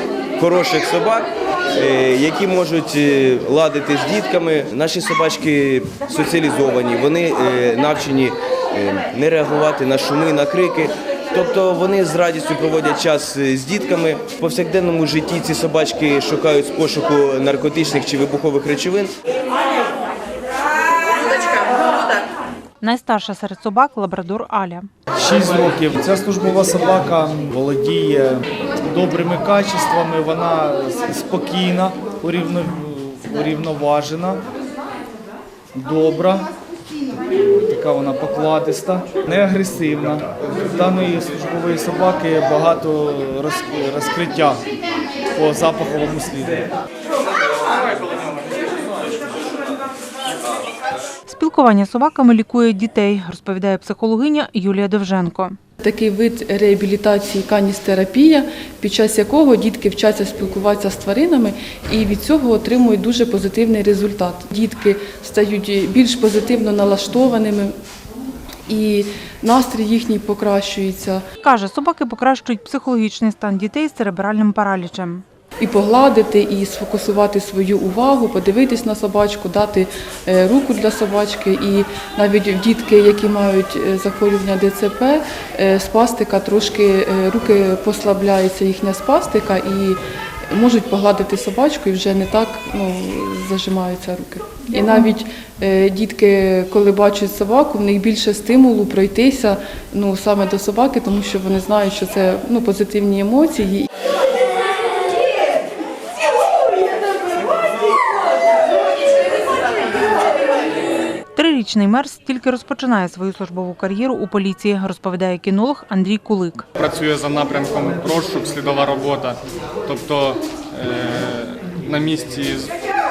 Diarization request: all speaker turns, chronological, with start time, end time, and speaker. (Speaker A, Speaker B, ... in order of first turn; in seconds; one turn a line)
Speaker A: 0.4-19.1
Speaker B: 22.8-24.9
Speaker C: 25.2-34.4
Speaker C: 35.8-36.5
Speaker C: 37.5-44.6
Speaker C: 45.3-46.7
Speaker B: 51.3-55.6
Speaker D: 55.8-67.7
Speaker D: 68.7-71.2
Speaker B: 71.4-75.2
Speaker D: 75.6-103.9
Speaker B: 111.3-116.7
Speaker E: 116.8-122.7